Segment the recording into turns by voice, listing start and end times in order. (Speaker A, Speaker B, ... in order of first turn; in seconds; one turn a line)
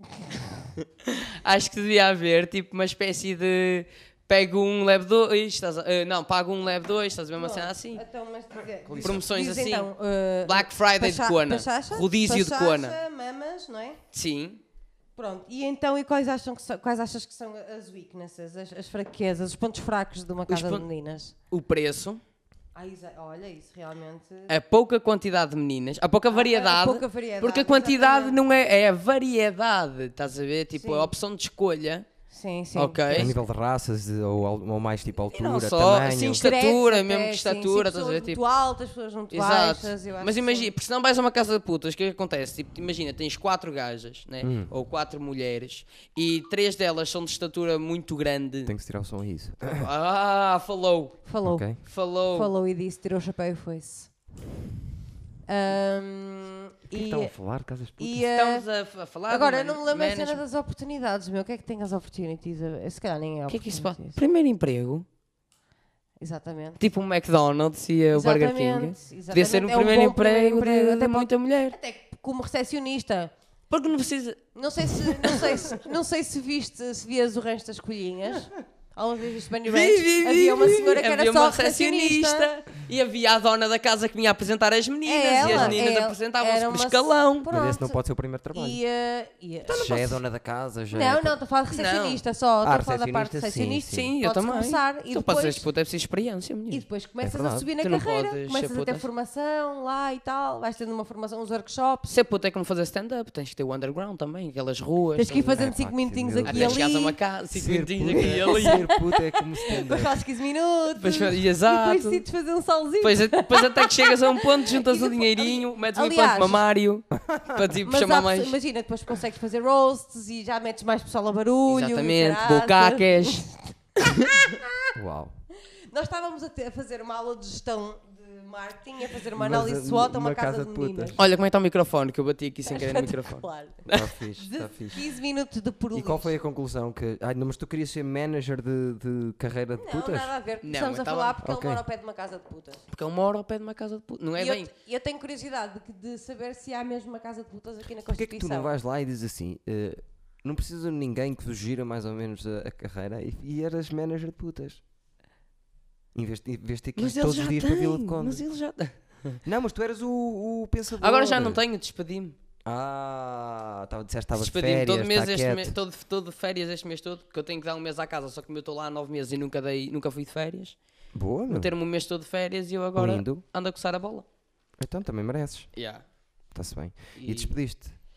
Speaker A: 1.0-8.0
Speaker B: 7.3-14.0
Speaker C: 8.8-9.2
Speaker A: 9.0-9.9
Speaker A: 10.4-13.0
Speaker A: 14.1-14.6
Speaker B: 15.2-21.3
Speaker A: 20.5-20.9
Speaker A: 21.5-22.2
Speaker B: 22.7-24.5
Speaker A: 24.5-32.1
Speaker B: 26.3-28.4
Speaker B: 30.8-31.1
Speaker B: 32.3-33.3
Speaker A: 32.8-33.4
Speaker C: 33.1-36.4
Speaker A: 35.3-38.4
Speaker B: 36.4-40.7
Speaker A: 39.3-48.7
Speaker C: 44.4-44.7
Speaker C: 48.6-49.9
Speaker A: 49.7-51.2
Speaker B: 51.2-54.1
Speaker C: 51.4-51.8
Speaker A: 51.8-52.5
Speaker B: 55.5-57.3
Speaker C: 56.9-58.2
Speaker B: 58.0-58.7
Speaker A: 58.3-60.4
Speaker B: 59.3-64.2
Speaker A: 63.5-65.0
Speaker B: 66.2-66.8
Speaker A: 66.8-71.8
Speaker B: 68.1-73.3
Speaker A: 73.7-75.8
Speaker B: 74.5-82.5
Speaker A: 79.7-87.5
Speaker B: 85.0-88.0
Speaker C: 85.4-85.8
Speaker C: 87.5-88.8
Speaker B: 88.5-90.2
Speaker C: 89.7-91.4
Speaker B: 90.9-95.7
Speaker A: 91.7-92.2
Speaker C: 92.6-94.1
Speaker A: 93.9-96.8
Speaker B: 96.7-102.1
Speaker C: 97.2-97.7
Speaker A: 97.8-99.0
Speaker A: 102.0-105.7
Speaker B: 105.2-107.2
Speaker C: 105.6-106.8
Speaker A: 106.5-108.9
Speaker C: 107.5-110.1
Speaker B: 108.2-116.6
Speaker A: 111.0-112.2
Speaker A: 113.0-118.5
Speaker C: 117.2-117.7
Speaker B: 117.8-124.9
Speaker A: 121.7-123.4
Speaker A: 124.0-124.3
Speaker C: 124.9-125.3
Speaker B: 125.9-131.2
Speaker C: 129.3-131.1
Speaker A: 131.2-134.1
Speaker B: 132.7-136.4
Speaker C: 133.9-135.0
Speaker C: 135.9-140.3
Speaker B: 139.8-142.8
Speaker A: 140.6-141.3
Speaker C: 141.4-141.8
Speaker A: 142.9-144.7
Speaker B: 144.4-148.7
Speaker C: 148.1-154.8
Speaker C: 156.1-158.4
Speaker A: 156.9-159.4
Speaker C: 159.4-161.6
Speaker A: 161.0-162.3
Speaker C: 162.6-165.7
Speaker A: 164.3-170.8
Speaker C: 171.1-171.7
Speaker A: 171.5-174.2
Speaker C: 172.9-173.4
Speaker C: 174.8-175.7
Speaker A: 175.7-176.0
Speaker C: 176.5-177.9
Speaker A: 177.2-177.5